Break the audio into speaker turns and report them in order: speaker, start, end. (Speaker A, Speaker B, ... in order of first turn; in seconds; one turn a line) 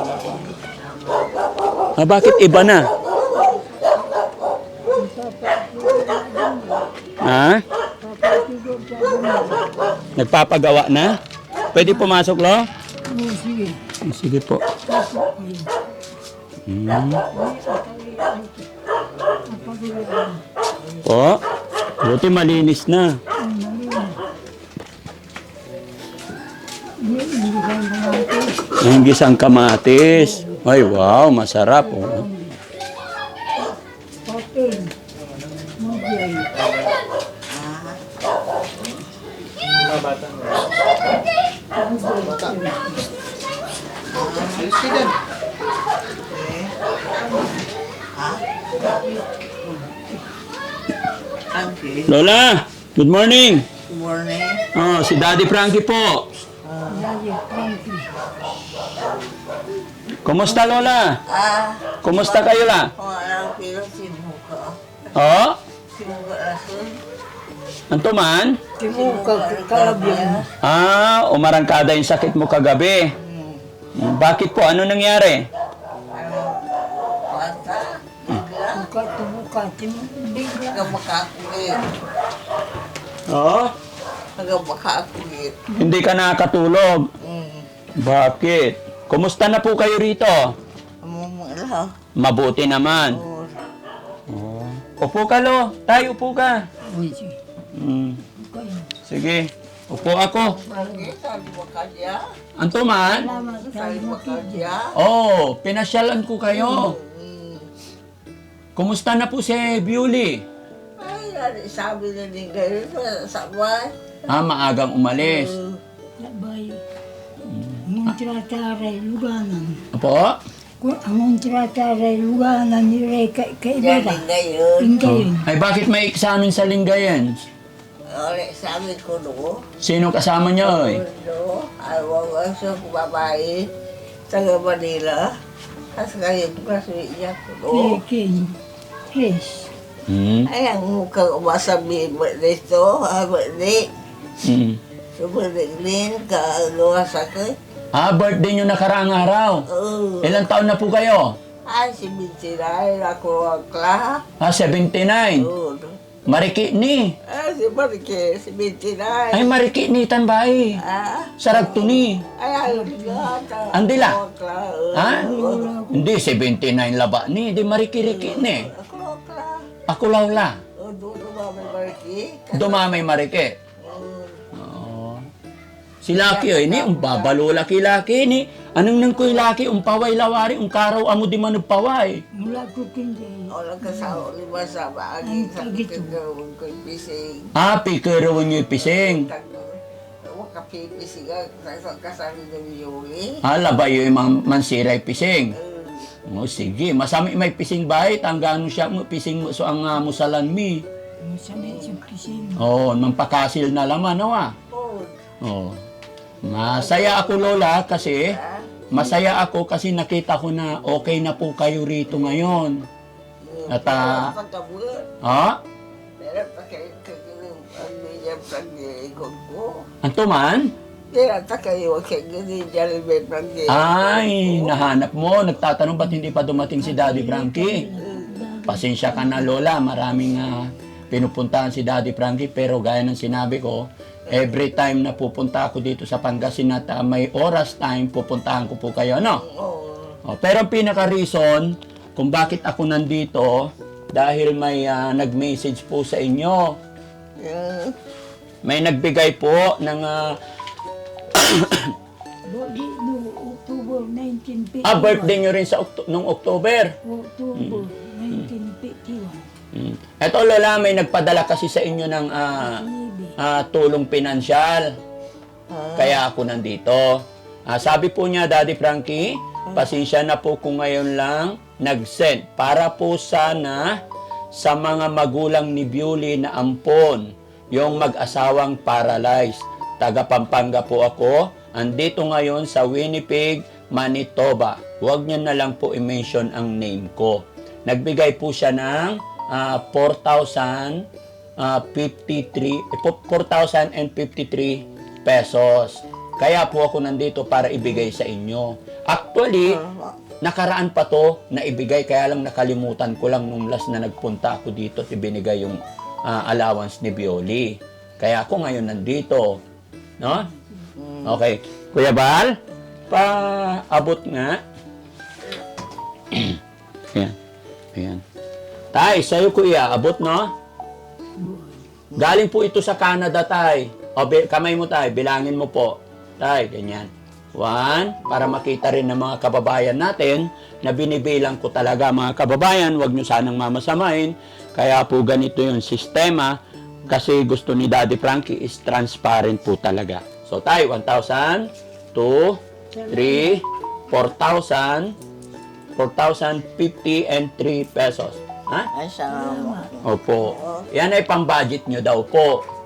Speaker A: 2.0-2.9
Speaker B: 4.9-6.9
Speaker A: 7.2-7.6
Speaker B: 8.0-9.7
Speaker A: 10.2-11.2
Speaker A: 11.7-12.7
Speaker B: 11.8-12.1
Speaker B: 13.1-13.9
Speaker A: 14.0-14.7
Speaker B: 14.8-15.8
Speaker A: 16.7-17.3
Speaker B: 17.3-18.7
Speaker B: 19.4-20.4
Speaker A: 21.0-21.4
Speaker A: 22.0-23.2
Speaker B: 23.4-24.2
Speaker B: 27.0-28.5
Speaker A: 28.8-32.3
Speaker B: 30.1-30.6
Speaker B: 31.8-32.6
Speaker B: 34.2-34.9
Speaker B: 35.8-36.5
Speaker C: 37.5-38.0
Speaker B: 41.8-43.0
Speaker C: 44.1-45.1
Speaker C: 46.3-46.8
Speaker C: 48.1-48.5
Speaker C: 51.5-52.3
Speaker A: 52.1-53.7
Speaker C: 53.9-54.7
Speaker A: 54.7-56.3
Speaker C: 56.6-57.1
Speaker B: 56.9-58.1
Speaker A: 60.2-61.2
Speaker C: 61.3-64.8
Speaker A: 62.0-62.9
Speaker A: 65.1-65.6
Speaker C: 65.9-67.0
Speaker A: 67.9-68.6
Speaker B: 68.8-70.5
Speaker C: 68.8-70.5
Speaker A: 70.6-73.1
Speaker C: 73.2-73.6
Speaker A: 74.0-75.5
Speaker C: 76.1-78.9
Speaker B: 78.7-81.0
Speaker C: 80.7-81.8
Speaker A: 83.3-83.7
Speaker C: 84.4-85.6
Speaker A: 85.7-87.1
Speaker C: 87.2-87.7
Speaker A: 88.0-90.5
Speaker C: 91.0-92.0
Speaker A: 92.2-93.2
Speaker C: 93.1-93.6
Speaker A: 94.3-96.7
Speaker B: 96.9-97.4
Speaker A: 97.7-98.2
Speaker B: 98.4-98.9
Speaker A: 99.0-100.6
Speaker C: 100.4-102.2
Speaker A: 102.6-103.3
Speaker B: 103.1-104.8
Speaker C: 103.2-105.0
Speaker A: 104.9-107.0
Speaker C: 106.5-107.7
Speaker A: 108.8-110.4
Speaker C: 111.0-113.9
Speaker A: 114.3-115.6
Speaker C: 115.2-115.8
Speaker B: 116.2-116.8
Speaker A: 117.5-117.8
Speaker B: 117.8-119.8
Speaker A: 119.9-120.4
Speaker B: 120.8-124.2
Speaker C: 123.8-125.2
Speaker B: 124.8-125.5
Speaker A: 125.0-127.4
Speaker C: 128.1-129.7
Speaker A: 129.8-131.0
Speaker C: 130.6-133.7
Speaker C: 134.3-135.3
Speaker C: 135.9-138.0
Speaker B: 137.7-138.6
Speaker B: 139.1-139.7
Speaker A: 140.1-140.5
Speaker C: 140.4-143.9
Speaker A: 144.4-144.8
Speaker C: 145.2-147.6
Speaker A: 147.9-149.7
Speaker C: 149.7-150.5
Speaker A: 150.2-151.3
Speaker C: 151.7-154.2
Speaker A: 154.4-155.5
Speaker C: 155.4-156.0
Speaker A: 156.3-157.2
Speaker C: 157.2-159.6
Speaker A: 159.3-160.8
Speaker C: 160.8-165.7
Speaker A: 161.4-162.2
Speaker B: 162.7-163.3
Speaker A: 163.7-164.2
Speaker A: 164.9-165.3
Speaker B: 165.2-166.1
Speaker A: 165.9-168.7
Speaker C: 168.0-169.7
Speaker A: 169.9-170.6
Speaker C: 170.8-173.1
Speaker A: 172.5-173.6
Speaker C: 173.8-174.4
Speaker A: 174.6-175.3
Speaker A: 176.0-182.2
Speaker C: 176.1-177.4
Speaker B: 182.3-184.2
Speaker C: 183.5-187.5
Speaker B: 185.2-186.2
Speaker A: 187.6-189.3
Speaker C: 188.8-193.4
Speaker A: 193.4-195.6
Speaker C: 195.6-196.1
Speaker A: 196.3-200.8
Speaker B: 201.2-202.6
Speaker C: 201.5-202.0
Speaker A: 202.6-204.6
Speaker C: 204.7-205.2
Speaker A: 205.4-205.8
Speaker A: 206.4-208.4
Speaker C: 206.7-209.0
Speaker A: 208.9-212.8
Speaker C: 213.4-215.1
Speaker A: 213.7-214.3
Speaker A: 215.2-215.6
Speaker C: 216.2-219.9
Speaker A: 220.0-220.7
Speaker C: 221.1-224.8
Speaker A: 223.7-227.9
Speaker B: 226.8-229.5
Speaker C: 228.0-228.4
Speaker A: 228.7-239.4
Speaker C: 234.3-234.6
Speaker C: 239.3-240.2
Speaker A: 240.2-246.8
Speaker C: 247.4-247.9
Speaker A: 248.6-250.4
Speaker A: 251.3-251.9
Speaker B: 252.4-255.4
Speaker A: 254.8-256.9
Speaker B: 257.1-259.5
Speaker A: 257.5-258.5
Speaker A: 259.7-264.9
Speaker B: 262.6-263.4
Speaker C: 265.7-266.2
Speaker A: 265.9-274.0
Speaker A: 274.6-291.1
Speaker A: 291.6-299.8
Speaker C: 299.6-300.2
Speaker A: 300.4-309.6
Speaker A: 310.2-310.5
Speaker C: 311.0-311.4
Speaker A: 311.2-312.6
Speaker A: 313.1-314.6
Speaker A: 316.3-316.6
Speaker A: 317.9-318.2
Speaker A: 318.9-320.5
Speaker B: 321.4-321.8
Speaker C: 322.1-322.4
Speaker A: 322.1-345.1
Speaker B: 342.9-343.5
Speaker A: 345.9-348.9
Speaker C: 348.9-350.9
Speaker B: 349.3-349.9
Speaker A: 350.0-352.6